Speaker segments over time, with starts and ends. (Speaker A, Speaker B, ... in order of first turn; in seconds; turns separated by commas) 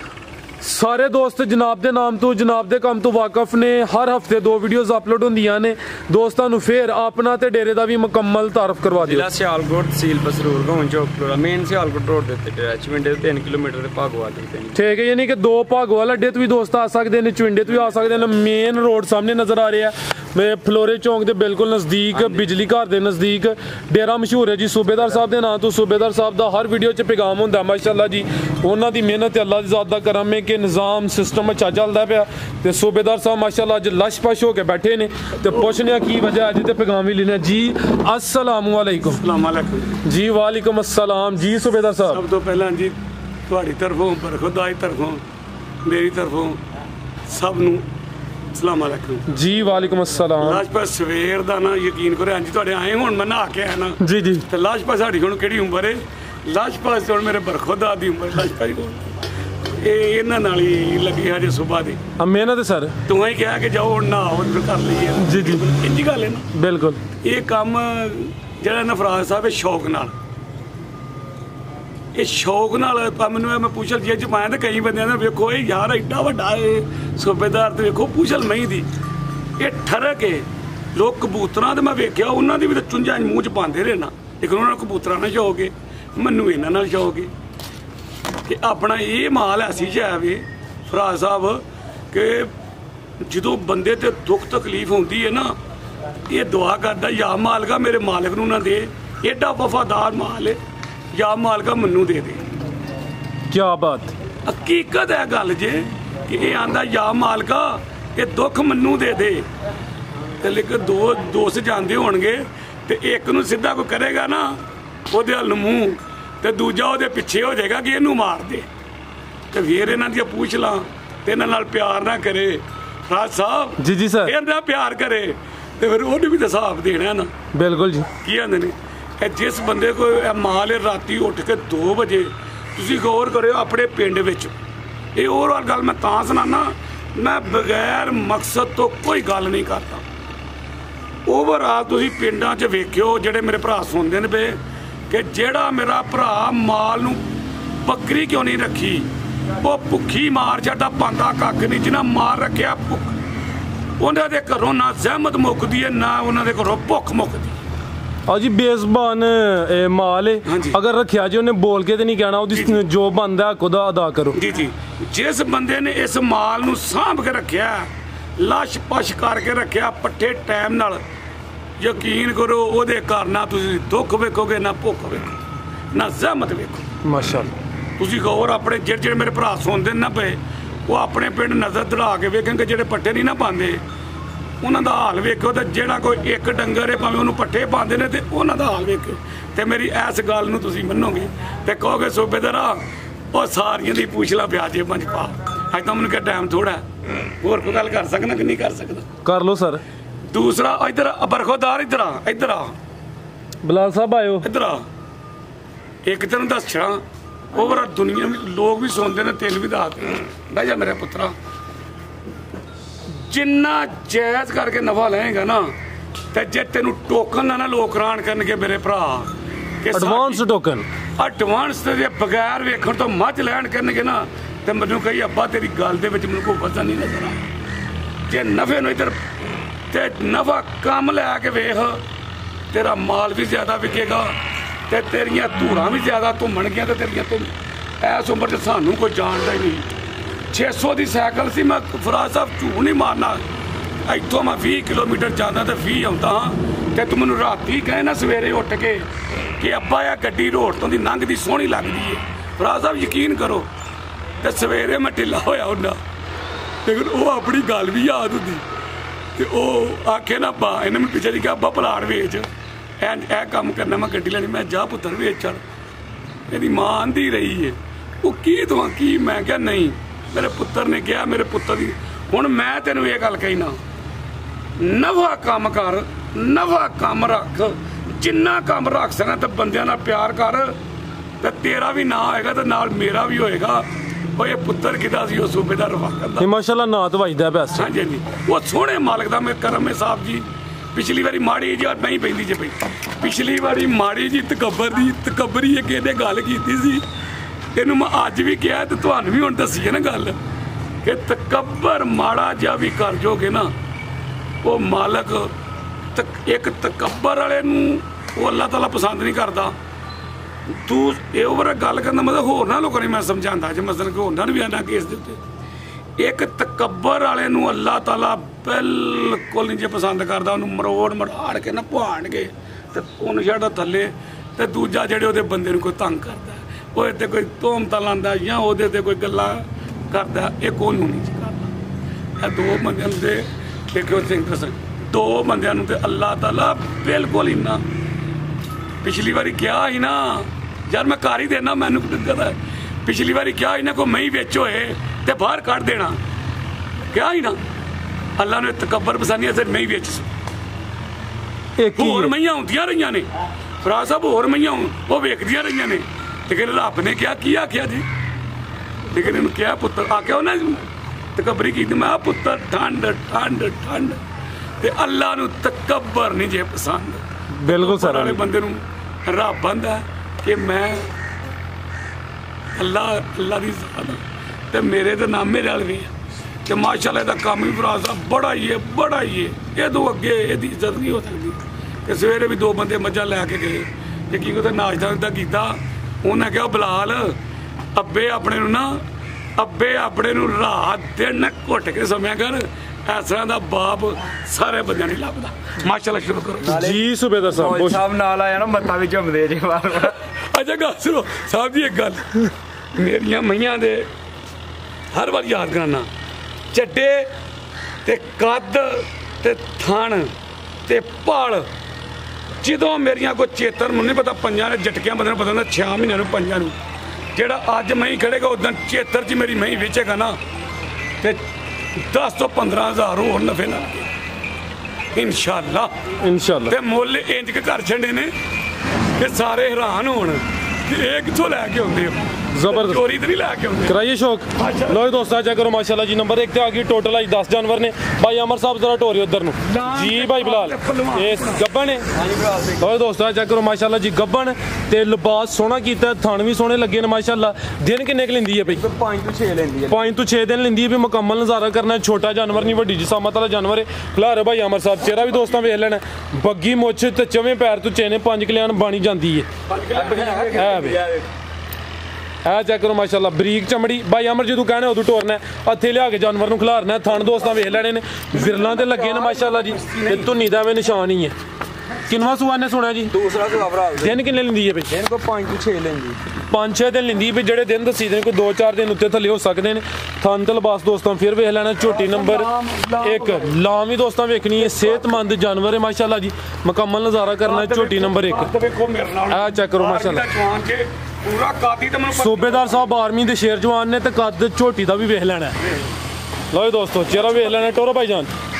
Speaker A: 0.6-9.3, Speaker B: 9.0-14.8, Speaker A: 14.7-39.2, Speaker B: 22.1-22.4, Speaker C: 39.1-40.0, Speaker A: 40.0-42.2, Speaker C: 42.1-42.9, Speaker C: 43.5-45.2, Speaker C: 45.8-46.6, Speaker C: 47.3-47.8, Speaker C: 48.5-49.2, Speaker A: 49.3-50.6, Speaker C: 50.4-59.1, Speaker A: 54.0-54.4, Speaker C: 59.8-62.0, Speaker A: 62.2-63.0, Speaker C: 63.1-66.5, Speaker A: 65.2-65.7, Speaker A: 66.5-67.0, Speaker C: 67.2-70.1, Speaker C: 72.1-78.9, Speaker C: 79.6-87.3, Speaker C: 88.5-92.5, Speaker C: 93.2-95.5, Speaker C: 96.3-100.6, Speaker C: 101.1-102.4, Speaker A: 103.5-104.1, Speaker C: 104.5-109.5, Speaker C: 110.4-118.7, Speaker C: 119.5-127.3, Speaker A: 123.8-124.3, Speaker A: 127.5-128.1, Speaker C: 128.2-134.5, Speaker C: 135.2-140.0, Speaker C: 141.2-147.2, Speaker C: 147.8-149.1, Speaker C: 149.6-153.1, Speaker C: 154.0-157.6, Speaker A: 158.3-164.4, Speaker C: 160.4-160.8, Speaker C: 162.5-162.8, Speaker C: 164.3-171.0, Speaker C: 171.8-175.4, Speaker C: 175.9-176.8, Speaker A: 177.0-177.5, Speaker C: 178.0-183.8, Speaker C: 184.6-196.8, Speaker C: 197.4-199.1, Speaker A: 199.2-199.8, Speaker C: 200.3-202.7, Speaker A: 203.6-204.4, Speaker C: 204.4-204.8, Speaker C: 206.0-207.0, Speaker C: 207.5-211.3, Speaker C: 213.2-215.7, Speaker C: 216.3-219.3, Speaker C: 219.8-220.4, Speaker A: 219.9-220.9, Speaker C: 221.2-227.4, Speaker C: 228.3-229.2, Speaker C: 229.9-232.0, Speaker C: 232.7-234.3, Speaker C: 234.9-239.8, Speaker C: 240.5-243.4, Speaker C: 244.1-253.7, Speaker C: 254.4-256.0, Speaker C: 256.8-258.6, Speaker C: 259.4-262.5, Speaker C: 263.0-265.6, Speaker C: 266.5-273.8, Speaker C: 274.8-280.8, Speaker C: 281.4-286.5, Speaker A: 286.4-287.9, Speaker C: 287.8-297.0, Speaker C: 297.7-300.4, Speaker C: 301.0-303.7, Speaker C: 304.6-305.5, Speaker C: 306.1-309.7, Speaker C: 310.7-315.4, Speaker C: 316.2-331.7, Speaker C: 332.4-337.8, Speaker C: 339.0-346.2, Speaker C: 347.1-347.6, Speaker C: 348.4-350.3, Speaker A: 351.8-352.3, Speaker C: 352.0-353.3, Speaker C: 353.8-358.0, Speaker C: 359.1-360.8, Speaker C: 361.4-364.2, Speaker C: 364.8-371.1, Speaker A: 367.6-368.4, Speaker C: 372.7-376.1, Speaker C: 376.6-387.4, Speaker C: 387.9-389.0, Speaker C: 389.6-396.8, Speaker B: 396.6-397.0, Speaker A: 396.6-398.0, Speaker B: 397.5-400.1, Speaker C: 400.5-402.4, Speaker C: 402.9-404.1, Speaker C: 405.1-406.1, Speaker C: 406.7-407.3, Speaker C: 408.0-410.3, Speaker C: 410.9-411.7, Speaker C: 412.6-416.7, Speaker C: 417.3-420.4, Speaker C: 422.0-424.1, Speaker C: 425.1-425.9, Speaker A: 426.2-426.8, Speaker C: 426.7-428.3, Speaker C: 429.2-433.9, Speaker A: 432.5-433.0, Speaker A: 433.9-442.0, Speaker C: 434.6-435.2, Speaker C: 439.6-441.6, Speaker B: 442.1-442.9, Speaker A: 442.8-448.8, Speaker B: 448.6-450.0, Speaker A: 449.9-459.5, Speaker C: 459.7-460.9, Speaker B: 459.9-461.2, Speaker A: 460.5-461.0, Speaker A: 462.4-471.3, Speaker C: 468.3-470.3, Speaker A: 472.1-473.1, Speaker B: 473.1-474.2, Speaker A: 474.0-474.9, Speaker B: 474.9-476.2, Speaker A: 476.5-482.5, Speaker C: 481.8-483.5, Speaker A: 483.0-488.5, Speaker C: 484.6-485.2, Speaker C: 487.4-492.8, Speaker A: 489.3-490.3, Speaker A: 492.1-495.6, Speaker A: 496.5-498.3